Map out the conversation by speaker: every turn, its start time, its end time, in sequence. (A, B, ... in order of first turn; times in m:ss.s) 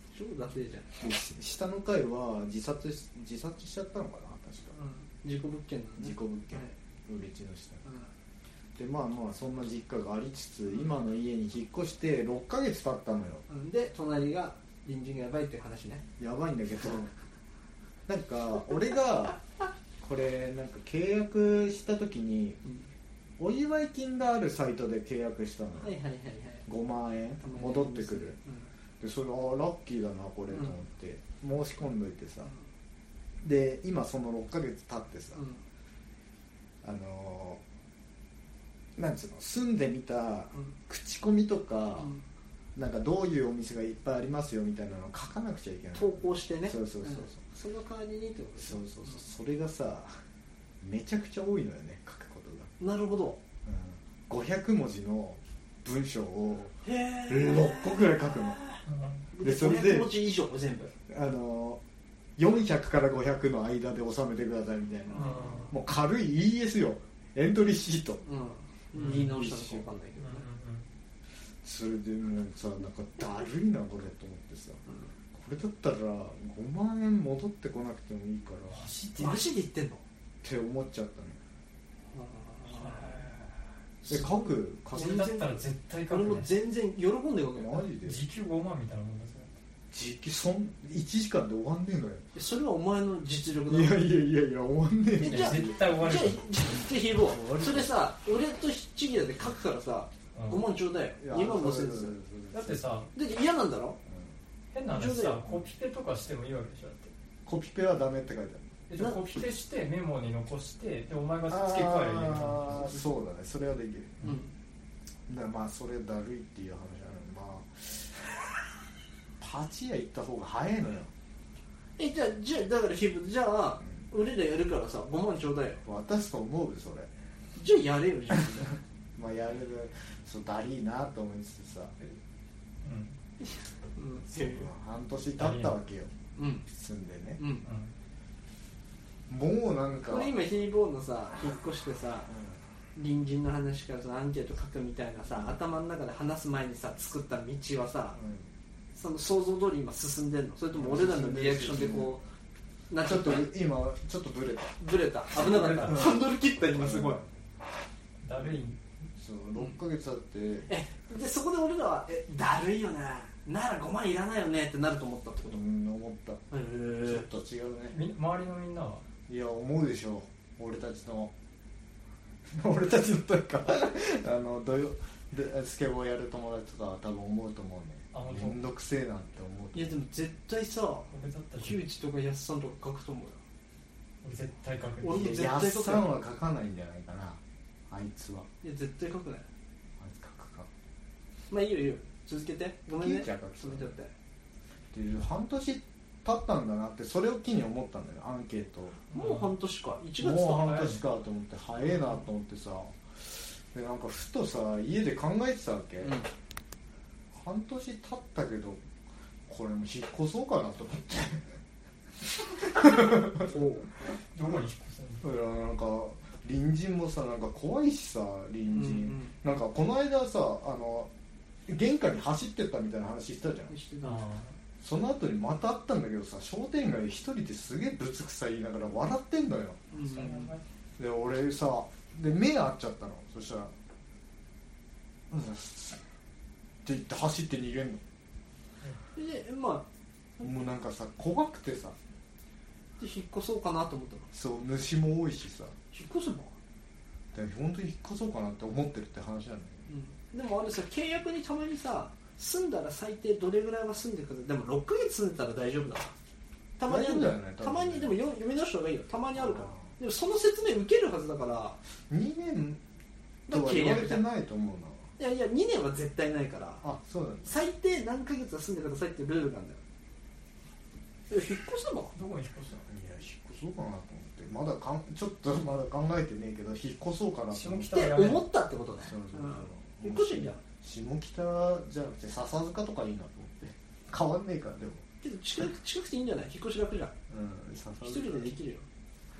0:00.1-0:00.9 A
0:01.0-0:04.8 B
0:04.7-0:06.7 A
0:06.0-0:07.8 B
0:07.8-0:08.1 A
0:08.8-0:13.4 B
0:13.5-0:16.0 A
0:16.2-0:17.1 B
0:18.1-0:19.4 B
0:20.0-0:22.6 B
0:23.4-0:26.0 B
0:25.8-0:26.6 A
0:26.6-0:28.4 B
0:27.4-0:28.7 A
0:29.0-0:32.5 B
0:30.5-0:30.8 A
0:33.4-0:35.4 B
0:35.3-0:35.6 A
0:36.8-0:37.6 B
0:39.0-0:42.1 B
0:42.7-0:47.4 B
0:45.9-0:49.2 A
0:48.6-0:50.2 B
0:50.8-0:52.7 B
0:52.8-0:53.4 A
0:53.6-0:56.8 B
0:56.8-0:58.8 A
0:57.3-0:58.6 B
0:58.9-0:59.2 C
0:59.3-1:00.9 A
0:59.4-1:00.2 B
1:01.1-1:01.8 B
1:02.4-1:08.2 B
1:05.1-1:05.7 A
1:05.1-1:05.7 C
1:08.2-1:10.5 A
1:08.9-1:09.3 C
1:08.9-1:09.9 B
1:10.2-1:10.9 C
1:11.6-1:14.8 B
1:15.3-1:18.9 B
1:18.7-1:19.5 C
1:19.2-1:20.0 A
1:20.4-1:21.4 B
1:22.1-1:23.3 A
1:22.7-1:23.4 C
1:24.0-1:27.8 A
1:24.1-1:25.3 B
1:24.9-1:26.5 C
1:27.5-1:28.2 B
1:28.0-1:29.5 C
1:29.9-1:32.2 B
1:32.3-1:34.0 A
1:33.7-1:36.2 B
1:35.2-1:42.2 A
1:35.2-1:36.5 C
1:37.1-1:37.9 B
1:40.3-1:40.6 C
1:41.2-1:42.8 B
1:42.5-1:43.1 C
1:43.1-1:44.0 A
1:44.7-1:47.1 C
1:44.9-1:45.5 A
1:47.4-1:48.8 B
1:48.9-1:53.0 C
1:51.5-1:54.2 B
1:54.2-1:54.5 A
1:55.3-1:58.1 B
1:59.4-2:01.1 B
2:02.0-2:05.8 A
2:05.8-2:07.1 B
2:07.5-2:08.8 A
2:09.2-2:12.0 B
2:12.8-2:13.2 C
2:13.4-2:14.7 A
2:14.3-2:16.1 B
2:15.4-2:15.7 C
2:16.4-2:16.6 A
2:16.7-2:17.4 B
2:17.4-2:17.6 A
2:17.6-2:17.9 C
2:19.3-2:20.3 B
2:20.1-2:22.3 A
2:22.3-2:22.6 B
2:23.0-2:28.2 A
2:25.3-2:25.6 B
2:28.2-2:28.5 B
2:28.9-2:32.2 A
2:30.7-2:32.2 B
2:32.9-2:33.5 A
2:33.0-2:34.8 B
2:34.8-2:37.2 A
2:35.3-2:36.2 C
2:35.9-2:37.3 B
2:38.2-2:38.8 C
2:39.2-2:40.7 B
2:40.7-2:45.6 A
2:45.5-2:46.4 B
2:46.5-2:47.3 A
2:47.0-2:48.0 B
2:47.9-2:49.0 C
2:49.3-2:51.3 B
2:52.5-3:00.0 B
2:58.1-2:58.6 C
2:59.7-3:03.4 A
3:01.1-3:01.8 C
3:04.2-3:05.3 C
3:05.0-3:06.1 A
3:05.0-3:08.5 B
3:08.6-3:09.4 A
3:10.0-3:10.7 B
3:11.5-3:14.1 A
3:13.0-3:13.9 B
3:14.9-3:19.0 B
3:19.1-3:19.5 C
3:19.1-3:20.9 A
3:20.2-3:26.2 B
3:20.7-3:21.0 C
3:26.0-3:26.3 A
3:27.3-3:28.8 B
3:29.5-3:31.6 B
3:32.6-3:33.5 B
3:33.5-3:33.9 A
3:34.3-3:35.3 C
3:35.2-3:41.1 B
3:38.7-3:39.3 A
3:41.7-3:43.7 B
3:43.7-3:44.2 A
3:44.0-3:44.6 C
3:44.8-3:49.8 B
3:49.9-3:50.6 A
3:50.0-3:50.6 C
3:51.0-3:53.7 B
3:55.3-3:56.0 B
3:56.8-3:58.0 B
3:59.2-3:59.8 A
4:00.4-4:02.0 B
4:03.0-4:04.3 A
4:04.3-4:05.8 B
4:05.9-4:06.5 A
4:07.3-4:09.8 B
4:09.9-4:16.1 A
4:16.8-4:21.8 A
4:16.8-4:18.1 B
4:19.4-4:19.8 B
4:22.1-4:22.8 B
4:23.5-4:24.2 A
4:23.5-4:25.0 B
4:25.2-4:26.8 A
4:26.8-4:27.5 B
4:27.4-4:29.8 A
4:31.3-4:32.1 A
4:32.1-4:32.9 C
4:32.9-4:38.1 B
4:37.5-4:38.5 C
4:37.9-4:40.6 A
4:39.0-4:45.0 B
4:45.2-4:47.1 A
4:47.3-4:48.5 B
4:48.0-4:48.8 A